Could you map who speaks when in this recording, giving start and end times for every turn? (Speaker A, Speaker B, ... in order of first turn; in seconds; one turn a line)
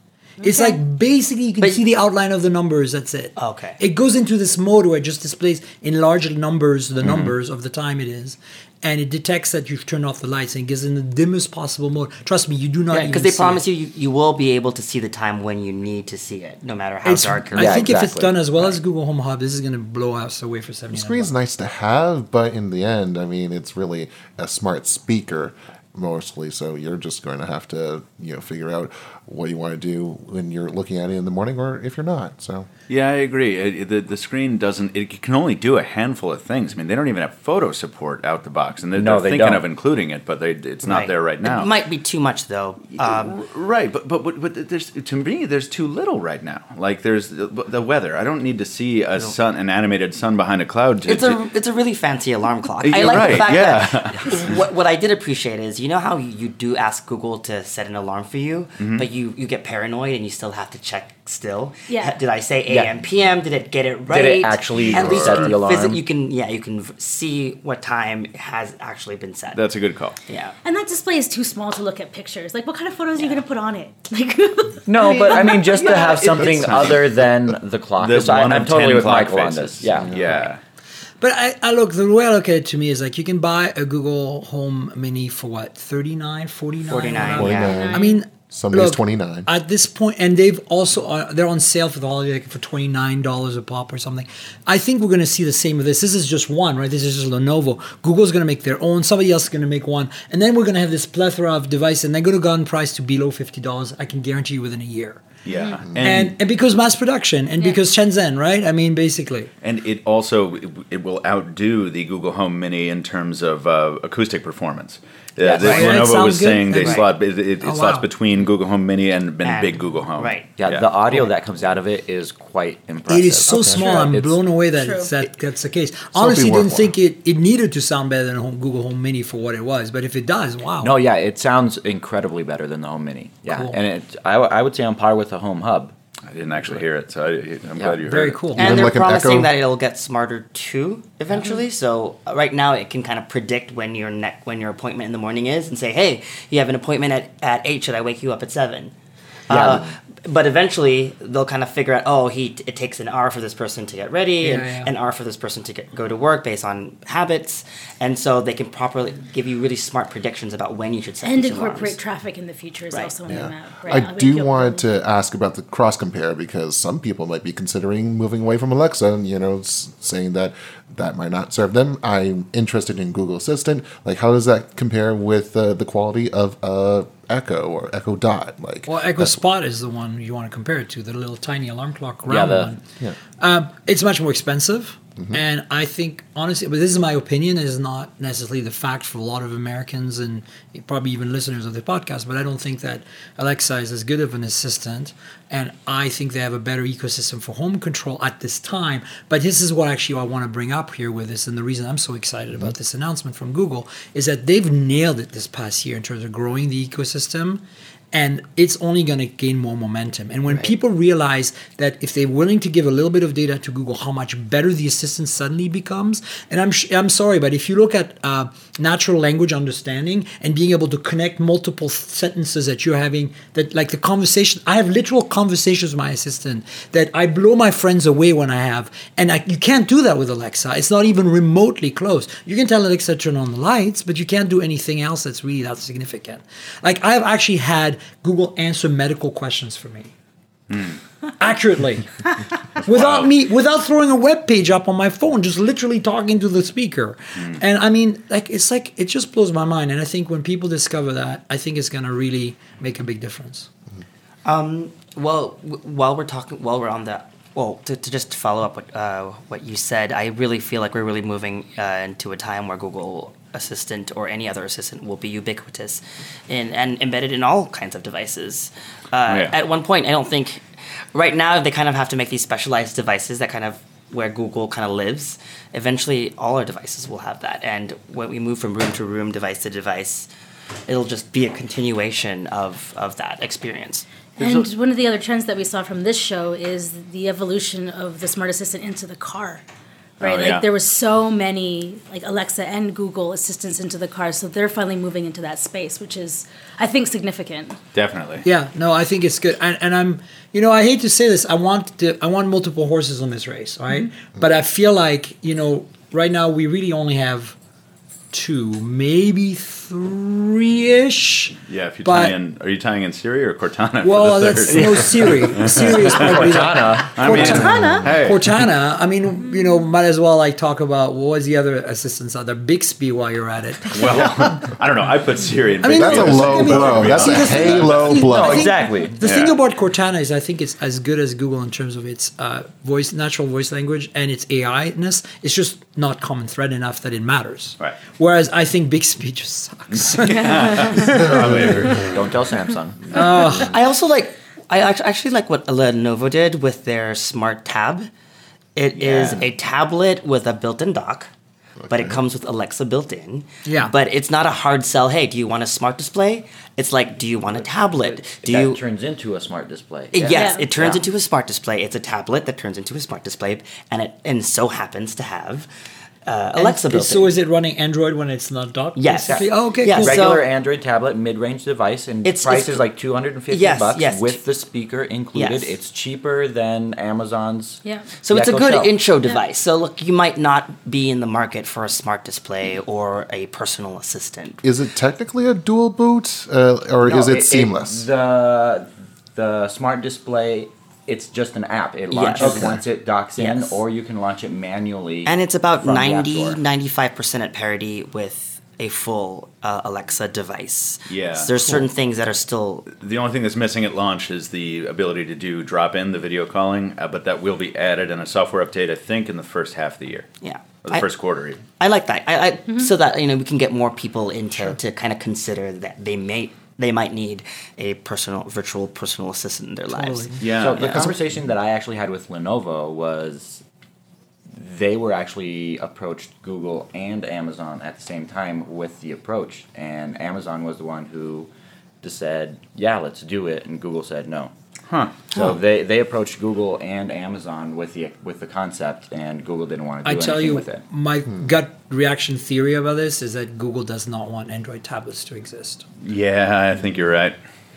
Speaker A: 0.4-0.8
Speaker B: 0.4-13.6
Speaker C: 3.4-3.8
Speaker D: 7.0-7.3
Speaker C: 12.9-18.0
Speaker B: 17.0-21.3
Speaker D: 17.6-18.4
Speaker E: 20.9-32.7
Speaker F: 32.9-41.7
Speaker D: 39.0-39.6
Speaker C: 40.8-43.4
Speaker F: 43.0-51.4
Speaker C: 51.1-69.6
Speaker F: 52.8-54.6
Speaker F: 58.8-59.1
Speaker A: 61.9-62.2
Speaker D: 64.1-66.0
Speaker F: 64.7-65.6
Speaker F: 69.5-70.2
Speaker C: 70.3-70.5
Speaker A: 70.6-75.6
Speaker D: 74.9-80.4
Speaker F: 75.0-77.1
Speaker F: 78.0-80.6
Speaker E: 80.1-80.4
Speaker B: 81.2-105.3
Speaker C: 86.8-87.9
Speaker E: 87.4-89.5
Speaker A: 87.6-88.2
Speaker F: 105.5-106.3
Speaker A: 105.5-105.9
Speaker B: 106.0-109.5
Speaker F: 109.6-120.9
Speaker D: 115.4-116.0
Speaker B: 115.6-117.1
Speaker C: 116.8-117.1
Speaker B: 117.6-118.1
Speaker C: 119.4-120.5
Speaker D: 120.6-124.4
Speaker B: 123.1-130.9
Speaker E: 123.5-123.8
Speaker A: 123.8-124.1
Speaker A: 124.7-125.1
Speaker E: 126.1-126.9
Speaker D: 130.8-135.9
Speaker B: 133.5-133.8
Speaker F: 136.3-138.4
Speaker D: 137.8-138.0
Speaker B: 138.1-138.8
Speaker E: 138.6-139.6
Speaker C: 138.6-148.9
Speaker C: 149.5-162.0
Speaker D: 149.5-149.8
Speaker B: 154.4-154.9
Speaker A: 161.2-164.9
Speaker C: 162.9-163.2
Speaker E: 163.3-179.3
Speaker B: 178.9-182.8
Speaker D: 182.3-182.8
Speaker B: 183.4-240.1
Speaker F: 240.7-241.0
Speaker B: 241.4-242.1
Speaker B: 242.8-253.7
Speaker F: 242.9-243.3
Speaker C: 254.4-280.3
Speaker F: 269.3-269.6
Speaker C: 280.9-284.1
Speaker F: 284.4-284.7
Speaker A: 284.4-289.6
Speaker A: 290.2-297.8
Speaker F: 290.2-290.7
Speaker F: 297.9-298.4
Speaker B: 298.4-307.6
Speaker B: 308.3-312.4
Speaker F: 311.7-318.7
Speaker B: 314.0-324.6
Speaker D: 314.7-317.4
Speaker A: 317.2-318.2
Speaker E: 317.8-318.0
Speaker A: 319.4-319.9
Speaker F: 323.9-328.3
Speaker B: 325.8-341.6
Speaker E: 325.8-328.8
Speaker D: 327.8-329.2
Speaker F: 329.2-329.6
Speaker F: 339.9-342.2
Speaker A: 340.4-341.2
Speaker E: 341.4-341.8
Speaker D: 341.8-343.0
Speaker B: 343.1-343.7
Speaker C: 343.6-348.1
Speaker C: 348.8-351.3
Speaker D: 349.0-349.4
Speaker E: 351.8-352.2
Speaker C: 351.9-358.8
Speaker B: 353.6-353.9
Speaker D: 357.5-361.1
Speaker C: 360.1-365.7
Speaker A: 360.3-360.7
Speaker C: 366.3-367.4
Speaker B: 366.6-370.3
Speaker C: 369.0-370.4
Speaker D: 369.2-379.0
Speaker C: 372.2-372.9
Speaker C: 373.5-374.4
Speaker C: 375.4-375.7
Speaker A: 377.8-378.1
Speaker C: 378.2-384.6
Speaker E: 384.6-388.0
Speaker D: 387.1-396.6
Speaker C: 392.1-392.8
Speaker E: 392.4-392.8
Speaker C: 393.4-393.8
Speaker C: 395.3-402.9
Speaker F: 401.1-401.6
Speaker F: 402.9-410.3
Speaker C: 410.4-411.1
Speaker F: 410.9-411.6
Speaker C: 411.8-421.1
Speaker B: 419.9-420.4
Speaker F: 420.4-421.1
Speaker D: 420.5-423.6
Speaker D: 424.5-431.5
Speaker D: 432.0-434.5
Speaker F: 434.9-435.1
Speaker D: 435.3-440.8
Speaker B: 440.0-445.9
Speaker F: 446.0-447.4